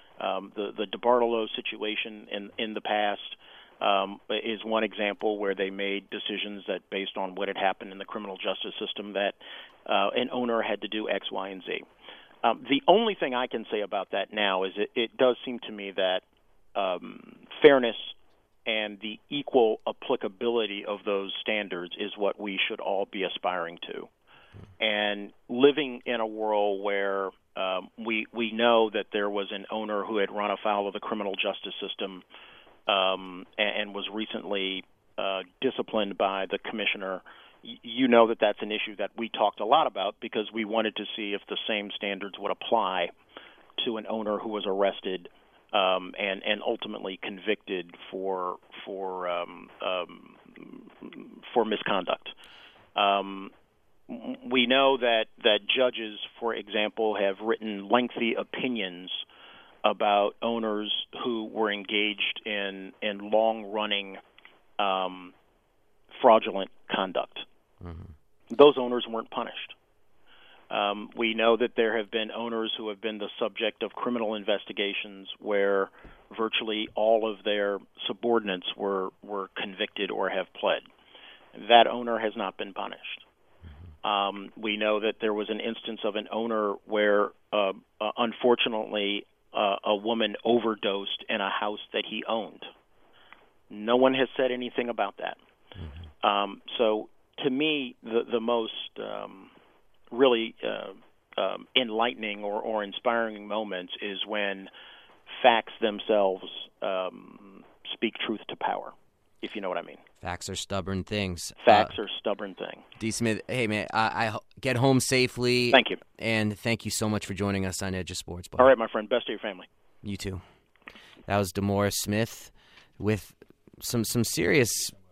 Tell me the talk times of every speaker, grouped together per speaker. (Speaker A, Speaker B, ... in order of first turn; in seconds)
Speaker A: 0.2-11.8, 12.4-16.2, 16.7-18.1, 18.6-24.1, 24.8-32.2, 32.9-43.1, 43.8-52.3, 53.0-53.5, 54.1-59.2, 59.8-64.2, 64.8-65.3, 66.1-67.4, 68.5-69.7, 70.7-80.8, 81.5-83.2, 84.0-92.7, 93.7-95.4, 96.2-99.5, 100.1-104.7, 105.3-110.0, 111.6-112.8, 115.7-116.0, 118.6-119.7
Speaker B: 67.8-68.1, 110.2-111.9, 113.0-118.7, 120.0-120.4, 121.3-124.9